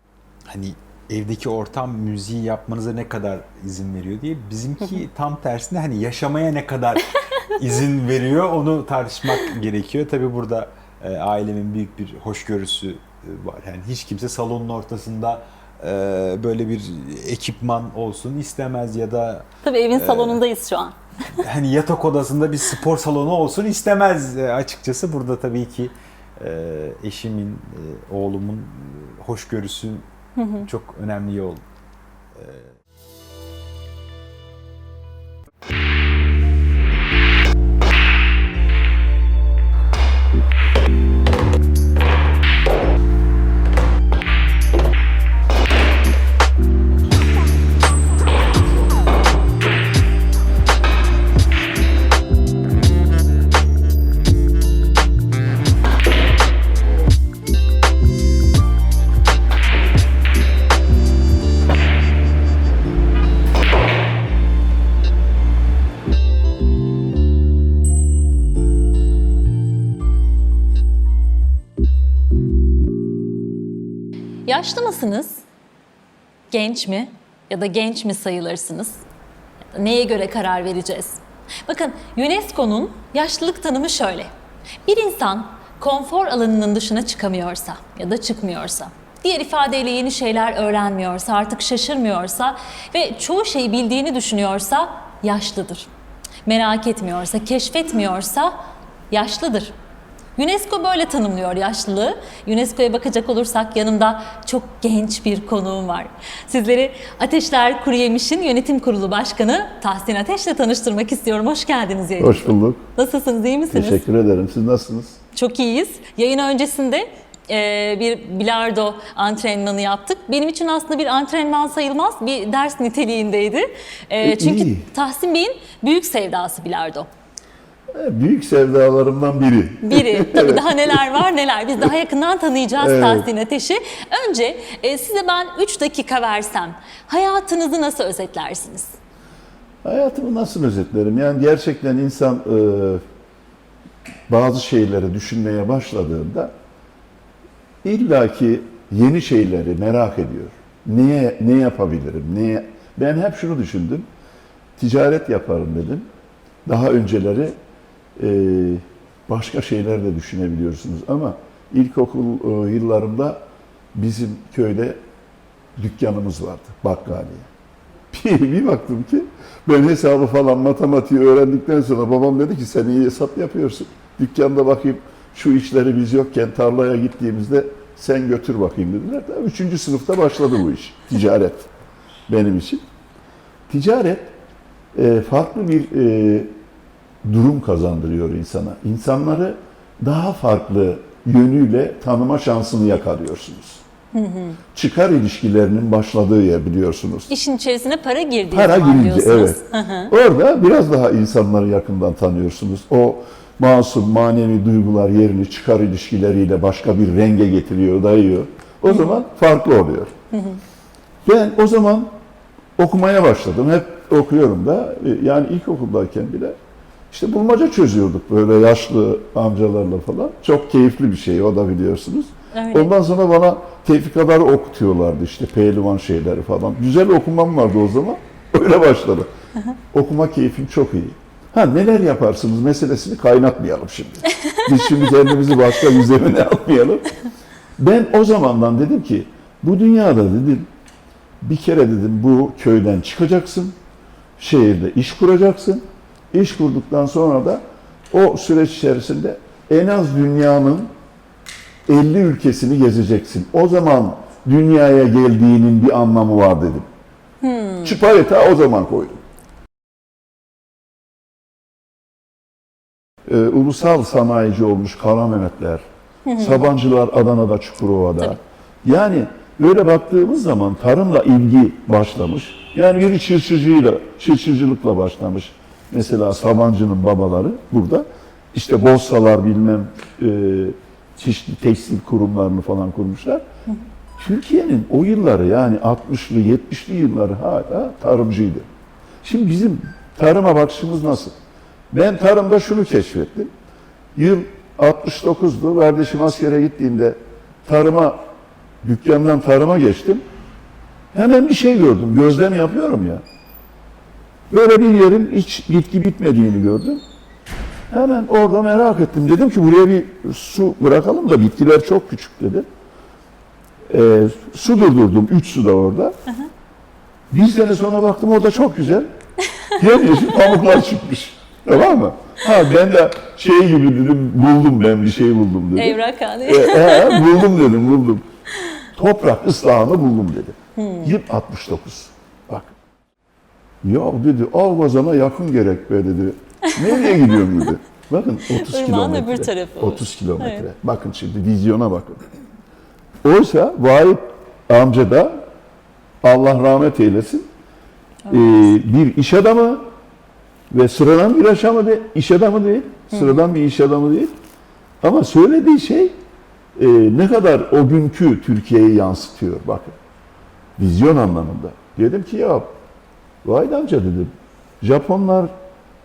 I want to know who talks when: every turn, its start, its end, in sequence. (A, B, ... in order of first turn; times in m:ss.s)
0:00.5-0:20.4 A
0:19.6-0:21.0 B
0:21.4-0:30.1 A
0:30.4-0:30.7 B
0:30.6-0:31.6 A
0:32.3-0:32.7 A
1:14.5-1:15.4 B
1:16.5-1:19.0 B
1:19.7-1:24.3 B
1:24.8-1:35.9 B
1:36.4-1:38.6 B
1:39.1-1:39.7 B
1:40.4-1:54.0 B
1:52.2-1:52.8 C
1:53.7-1:55.2 C
1:55.3-2:07.1 B
2:04.2-2:04.9 C
2:07.9-2:11.2 C
2:09.8-2:19.0 B
2:12.8-2:13.3 C
2:19.8-2:23.0 C
2:24.3-2:26.5 C
2:27.8-2:34.1 C
2:34.8-2:36.1 C
2:36.6-2:37.6 C
2:38.2-2:43.4 C
2:43.9-2:45.0 C
2:45.8-2:47.5 C
2:48.1-3:01.7 C
3:02.3-3:02.8 C
3:03.7-3:04.3 C
3:04.9-3:06.5 C
3:07.2-3:13.8 C
3:14.1-3:14.6 B
3:14.7-3:17.3 C
3:17.3-3:20.1 B
3:18.5-3:30.1 C
3:28.9-3:29.2 B
3:30.3-3:30.6 B
3:31.2-3:32.1 C
3:32.8-3:36.6 C
3:37.1-3:49.3 C
3:42.5-3:42.9 B
3:49.9-3:57.1 C
3:57.8-4:00.7 C
4:01.4-4:03.7 C
4:04.4-4:10.9 C
4:11.9-4:16.9 C
4:17.4-4:18.0 B
4:17.8-4:19.2 C
4:23.3-4:25.8 C
4:26.2-4:26.7 B
4:26.4-4:43.4 C
4:44.2-4:48.7 C
4:49.2-4:51.4 C
4:51.9-4:53.5 C
4:54.2-4:58.2 C
4:58.8-5:00.2 C
5:01.1-5:03.2 C
5:04.5-5:07.0 C
5:07.9-5:12.7 C
5:13.9-5:16.1 C
5:17.3-5:19.1 C
5:19.8-5:28.2 C
5:25.8-5:27.3 B
5:28.9-5:32.7 C
5:30.8-5:31.1 B
5:33.8-5:42.3 C
5:36.6-5:37.6 B
5:38.6-5:40.6 B
5:43.2-5:45.4 C
5:46.2-5:47.5 C
5:48.3-5:48.6 B
5:48.3-5:49.8 C
5:50.7-5:54.3 C
5:53.1-5:53.4 B
5:55.0-5:56.2 C
5:56.8-6:00.0 C
6:00.8-6:02.7 C
6:03.4-6:05.5 C